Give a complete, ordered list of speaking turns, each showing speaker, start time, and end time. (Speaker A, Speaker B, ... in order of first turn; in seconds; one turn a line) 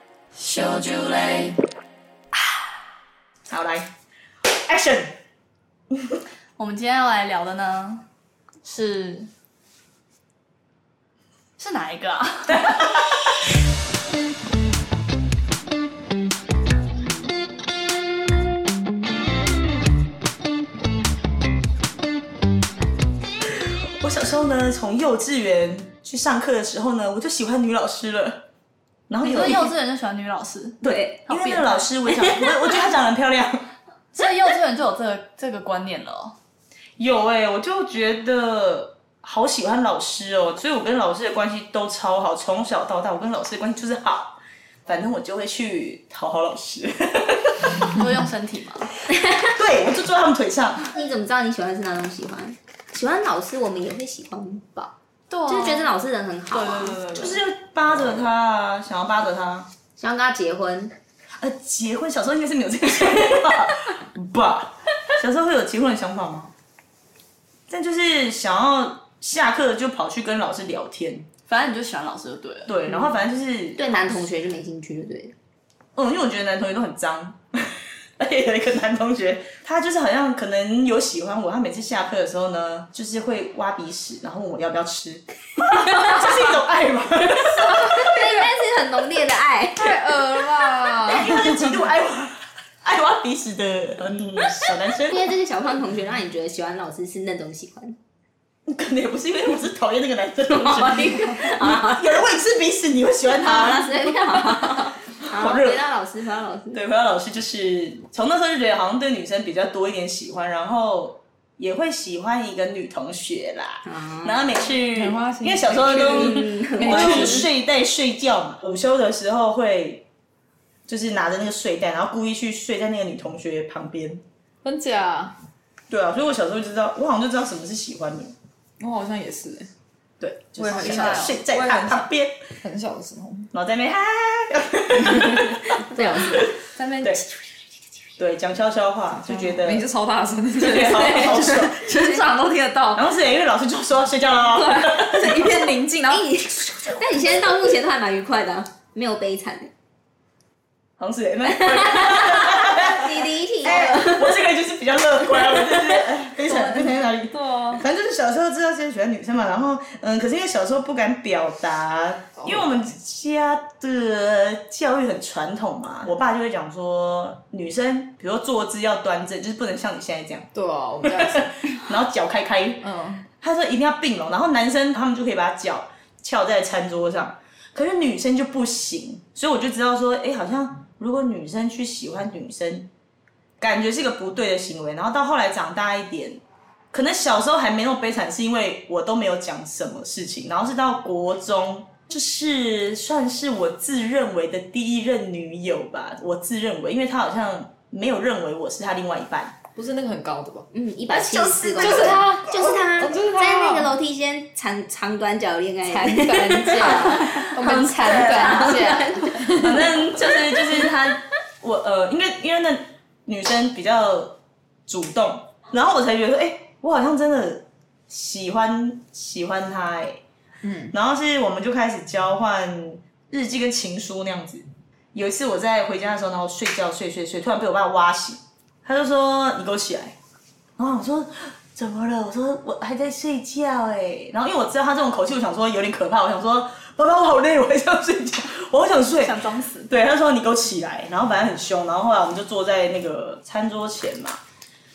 Speaker A: 0.3-1.6
Speaker B: 3.5-3.9
Speaker B: 4.7-5.1
Speaker B: 5.9-6.2
Speaker A: 6.6-8.0
Speaker A: 8.6-9.3
Speaker A: 11.6-12.9
Speaker B: 12.5-13.2
Speaker B: 23.5-28.4
Speaker B: 29.1-29.7
Speaker A: 29.2-31.9
Speaker B: 30.8-33.7
Speaker C: 30.8-31.1
Speaker A: 34.1-36.3
Speaker B: 37.0-47.9
Speaker A: 47.8-48.9
Speaker C: 49.1-49.6
Speaker B: 49.5-50.9
Speaker C: 50.9-54.9
Speaker A: 55.3-56.0
Speaker C: 55.5-57.0
Speaker A: 56.5-57.4
Speaker B: 57.1-59.7
Speaker C: 60.0-60.9
Speaker B: 61.4-66.5
Speaker B: 67.7-71.3
Speaker A: 71.5-72.7
Speaker B: 72.7-73.9
Speaker C: 73.8-75.3
Speaker B: 76.0-87.9
Speaker C: 87.6-90.0
Speaker D: 89.8-91.8
Speaker B: 90.9-95.3
Speaker C: 95.0-98.0
Speaker B: 98.7-104.2
Speaker C: 100.5-102.2
Speaker C: 103.3-106.8
Speaker B: 105.2-105.9
Speaker B: 106.7-120.0
Speaker C: 113.8-114.4
Speaker D: 114.9-117.5
Speaker C: 116.0-117.5
Speaker B: 120.9-124.2
Speaker D: 124.6-125.3
Speaker B: 125.9-128.3
Speaker D: 128.8-129.7
Speaker B: 130.2-132.3
Speaker D: 130.6-132.1
Speaker A: 130.6-131.4
Speaker D: 132.6-133.5
Speaker B: 133.5-136.5
Speaker C: 135.9-136.5
Speaker D: 135.9-137.3
Speaker B: 138.2-139.8
Speaker D: 139.2-143.0
Speaker B: 140.5-141.8
Speaker C: 141.9-142.3
Speaker B: 142.9-145.6
Speaker D: 144.5-147.0
Speaker C: 146.1-149.7
Speaker B: 151.0-170.5
Speaker C: 151.5-154.4
Speaker D: 156.4-157.8
Speaker D: 162.4-162.8
Speaker D: 170.5-171.5
Speaker B: 171.0-172.9
Speaker D: 172.8-173.2
Speaker B: 173.4-182.9
Speaker B: 183.6-186.4
Speaker B: 186.9-199.6
Speaker D: 199.7-203.9
Speaker C: 200.7-209.5
Speaker B: 201.6-202.2
Speaker D: 205.9-210.0
Speaker B: 207.6-208.9
Speaker B: 209.6-220.2
Speaker C: 210.0-210.8
Speaker D: 220.6-220.9
Speaker B: 220.9-230.1
Speaker B: 230.8-244.4
Speaker A: 239.2-239.9